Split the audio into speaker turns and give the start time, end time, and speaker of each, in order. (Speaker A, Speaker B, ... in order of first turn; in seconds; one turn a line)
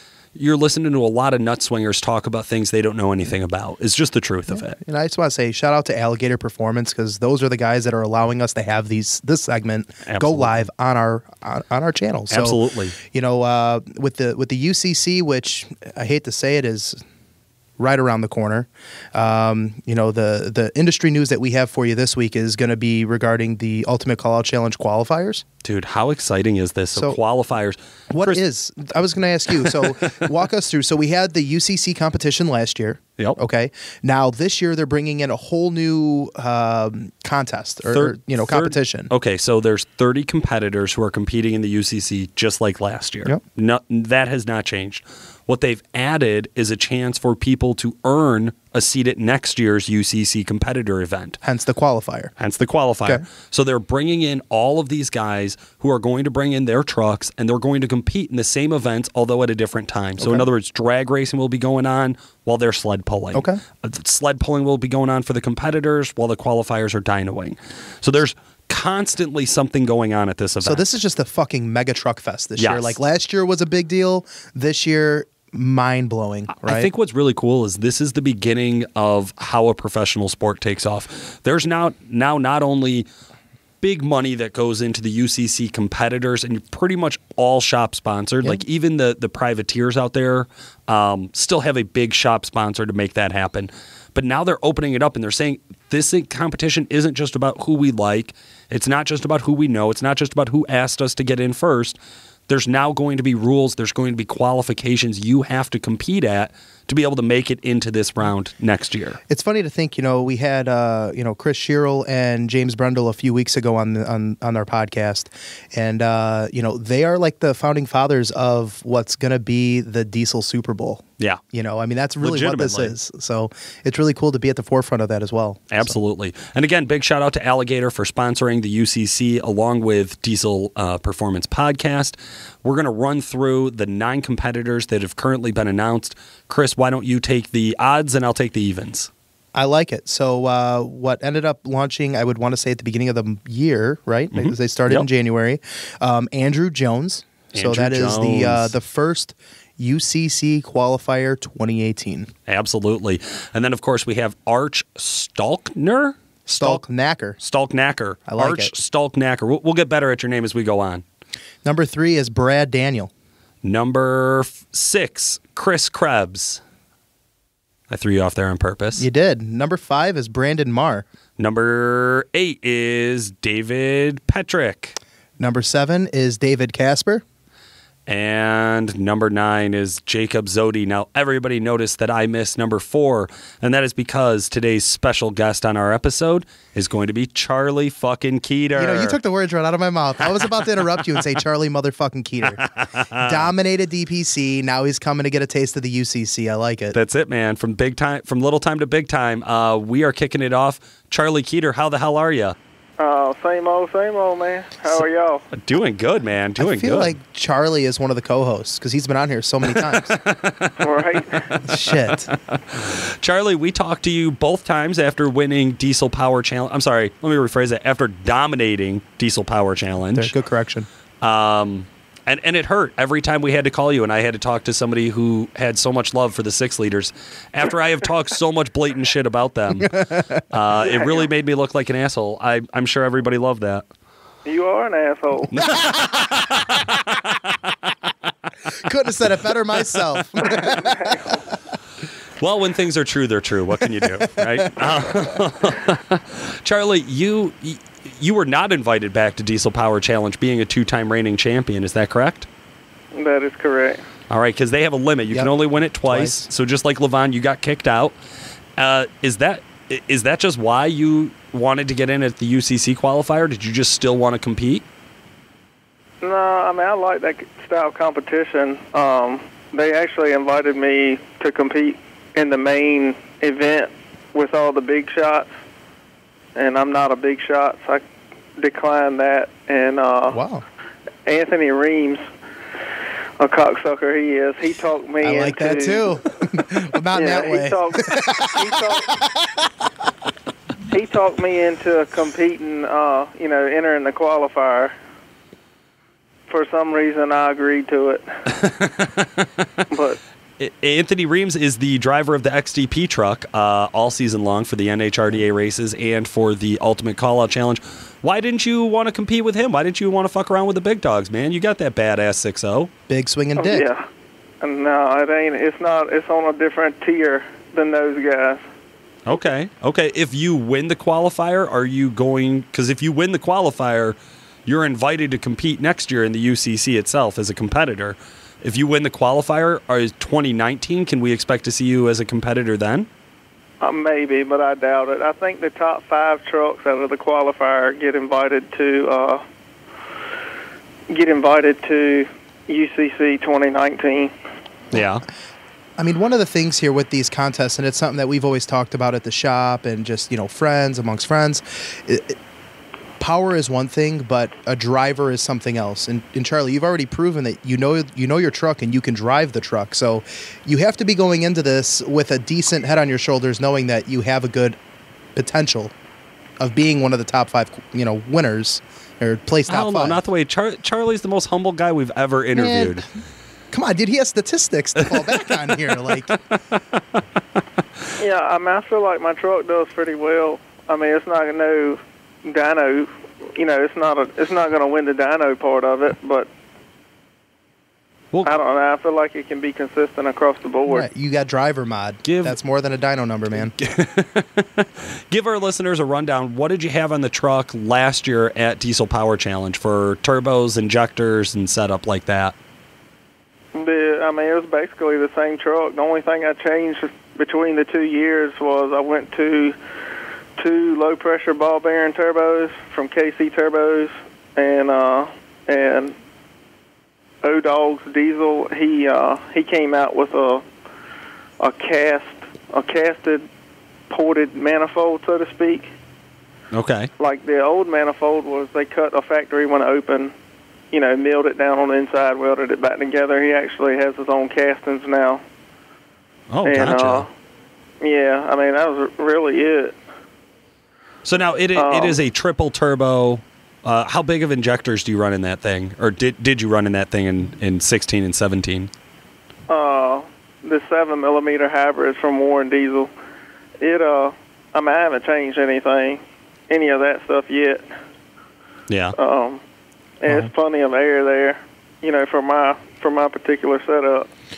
Speaker A: 0.3-4.8
Speaker B: 4.5-17.0
Speaker A: 10.1-10.6
Speaker A: 12.3-12.9
Speaker B: 17.8-25.4
Speaker A: 25.6-28.4
Speaker B: 28.1-39.1
Speaker A: 29.6-30.1
Speaker A: 37.9-51.4
Speaker B: 51.4-52.3
Speaker A: 52.4-70.9
Speaker B: 60.2-60.5
Speaker B: 63.3-63.6
Speaker B: 70.6-76.9
Speaker A: 72.6-73.0
Speaker A: 76.6-83.1
Speaker A: 83.8-109.2
Speaker B: 109.3-126.0
Speaker A: 122.2-123.0
Speaker A: 125.7-139.1
Speaker B: 139.6-152.3
Speaker A: 144.3-145.1
Speaker A: 147.5-148.7
Speaker A: 152.5-156.8
Speaker B: 156.5-157.4
Speaker A: 157.4-161.0
Speaker B: 158.3-158.7
Speaker B: 161.6-163.1
Speaker A: 163.6-166.6
Speaker A: 167.9-169.1
Speaker B: 169.0-171.1
Speaker A: 171.4-175.0
Speaker B: 175.4-177.2
Speaker A: 178.1-189.2
Speaker B: 188.8-196.9
Speaker A: 192.6-193.4
Speaker A: 196.9-202.6
Speaker C: 203.0-205.5
Speaker A: 205.5-207.1
Speaker B: 206.6-210.2
Speaker A: 209.7-210.8
Speaker C: 210.8-211.6
Speaker A: 211.5-220.3
Speaker B: 211.6-212.3
Speaker B: 220.2-220.9
Speaker A: 221.2-233.8
Speaker B: 229.8-230.5
Speaker C: 234.4-235.5
Speaker A: 235.5-237.9
Speaker B: 238.8-241.2
Speaker A: 239.8-240.1
Speaker C: 240.5-241.4
Speaker A: 242.4-252.5
Speaker B: 243.9-245.1
Speaker C: 253.1-254.0
Speaker A: 254.3-258.2
Speaker B: 256.1-256.4
Speaker A: 258.8-264.8
Speaker C: 266.2-275.5
Speaker C: 276.6-278.0
Speaker C: 278.6-280.4
Speaker B: 280.3-280.6
Speaker C: 281.2-282.2
Speaker C: 283.4-286.1
Speaker B: 285.2-289.3
Speaker C: 287.1-289.2
Speaker C: 290.9-294.9
Speaker C: 296.5-298.2
Speaker A: 298.5-299.8
Speaker C: 299.9-300.2
Speaker A: 300.6-312.9
Speaker B: 313.1-313.9
Speaker C: 313.6-314.1
Speaker C: 314.6-318.6
Speaker A: 319.2-333.1
Speaker C: 333.8-339.4
Speaker C: 341.1-344.3
Speaker A: 344.9-345.2
Speaker B: 346.0-352.4
Speaker B: 353.2-364.8
Speaker B: 365.4-365.9
Speaker B: 366.6-370.2
Speaker A: 369.7-373.1
Speaker B: 372.5-373.0
Speaker B: 373.7-376.3
Speaker A: 375.0-377.2
Speaker C: 378.2-386.5
Speaker C: 388.4-391.1
Speaker B: 390.9-393.8
Speaker A: 392.2-392.6
Speaker A: 393.7-402.5
Speaker C: 403.7-409.8
Speaker C: 410.6-416.1
Speaker C: 417.4-420.6
Speaker C: 421.6-423.4
Speaker C: 424.1-425.9
Speaker A: 426.7-427.1
Speaker C: 427.2-430.3
Speaker C: 430.9-435.4
Speaker A: 436.5-437.2
Speaker C: 436.6-437.3
Speaker C: 438.0-440.0
Speaker A: 441.2-448.9
Speaker C: 441.8-442.2
Speaker C: 449.7-453.1
Speaker C: 453.8-457.9
Speaker A: 458.9-459.1
Speaker C: 459.2-459.6
Speaker C: 460.2-464.3